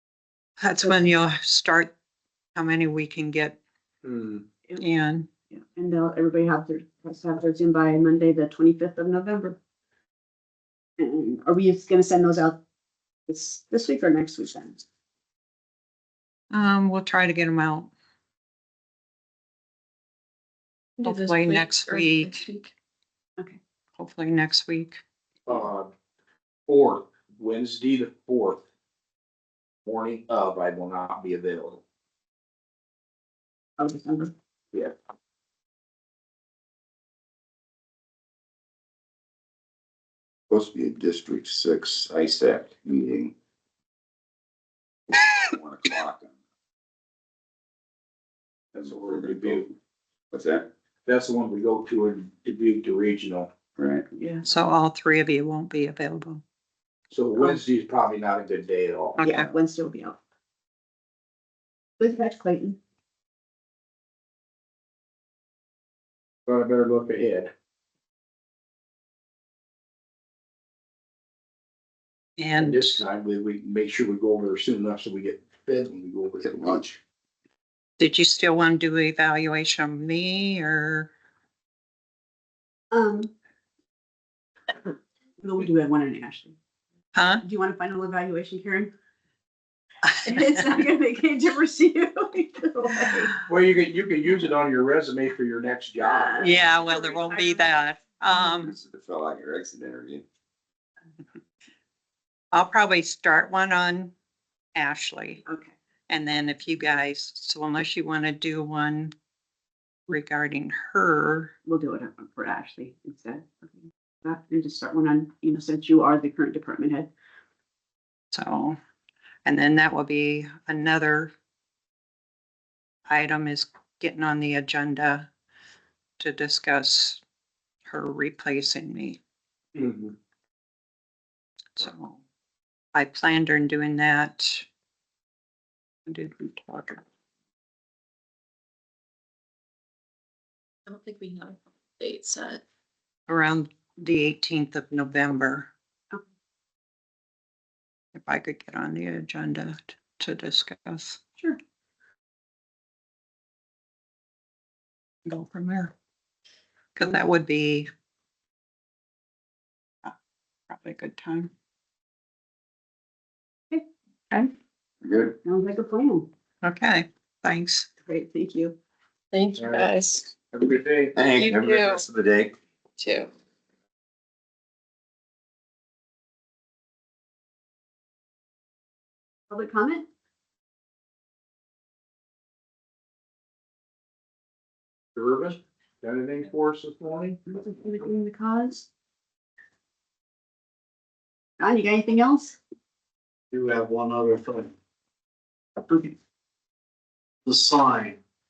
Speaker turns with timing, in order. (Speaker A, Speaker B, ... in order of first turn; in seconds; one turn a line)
Speaker A: 0.6-1.9
Speaker A: 2.5-3.6
Speaker B: 4.0-4.4
Speaker A: 4.8-5.3
Speaker C: 5.5-9.6
Speaker C: 11.0-12.6
Speaker C: 13.3-14.8
Speaker A: 16.5-17.9
Speaker D: 21.0-22.7
Speaker A: 21.0-22.4
Speaker A: 24.0-25.0
Speaker B: 25.4-25.9
Speaker B: 26.7-28.6
Speaker B: 29.8-31.8
Speaker C: 33.8-34.3
Speaker E: 40.5-43.3
Speaker E: 45.4-46.3
Speaker E: 48.7-49.7
Speaker B: 48.8-49.6
Speaker E: 50.3-50.7
Speaker B: 51.0-53.5
Speaker E: 53.8-54.0
Speaker C: 54.1-54.5
Speaker A: 54.5-56.4
Speaker B: 57.1-59.2
Speaker A: 59.2-59.5
Speaker C: 59.2-60.2
Speaker C: 62.0-62.8
Speaker B: 66.5-67.5
Speaker A: 72.4-73.0
Speaker B: 72.6-77.0
Speaker E: 76.4-76.8
Speaker A: 78.0-81.1
Speaker C: 82.9-83.3
Speaker C: 85.4-86.5
Speaker A: 87.1-87.4
Speaker C: 87.4-88.9
Speaker C: 90.2-93.3
Speaker B: 93.5-96.5
Speaker C: 96.0-96.6
Speaker A: 96.4-98.7
Speaker E: 98.6-100.2
Speaker A: 102.5-104.1
Speaker A: 104.7-105.4
Speaker C: 105.5-105.7
Speaker A: 106.1-109.1
Speaker A: 110.1-111.5
Speaker C: 111.7-117.1
Speaker A: 118.3-118.8
Speaker A: 119.4-121.3
Speaker A: 123.1-125.3
Speaker A: 126.2-127.2
Speaker A: 127.8-129.2
Speaker B: 129.8-130.1
Speaker A: 131.8-132.2
Speaker A: 132.9-134.7
Speaker A: 136.1-137.0
Speaker D: 140.9-142.6
Speaker A: 143.3-145.7
Speaker A: 148.1-151.2
Speaker A: 155.2-155.9
Speaker A: 156.9-157.9
Speaker A: 160.7-161.5
Speaker E: 165.0-165.3
Speaker C: 165.4-166.3
Speaker A: 166.6-167.9
Speaker C: 168.0-168.8
Speaker D: 169.3-170.3
Speaker B: 169.5-169.9
Speaker B: 170.5-171.2
Speaker E: 171.1-172.5
Speaker D: 171.3-172.0
Speaker D: 173.0-173.3
Speaker C: 179.5-180.1
Speaker B: 185.1-187.4
Speaker C: 187.4-188.9
Speaker C: 191.6-192.6
Speaker F: 193.5-194.7
Speaker F: 197.4-198.2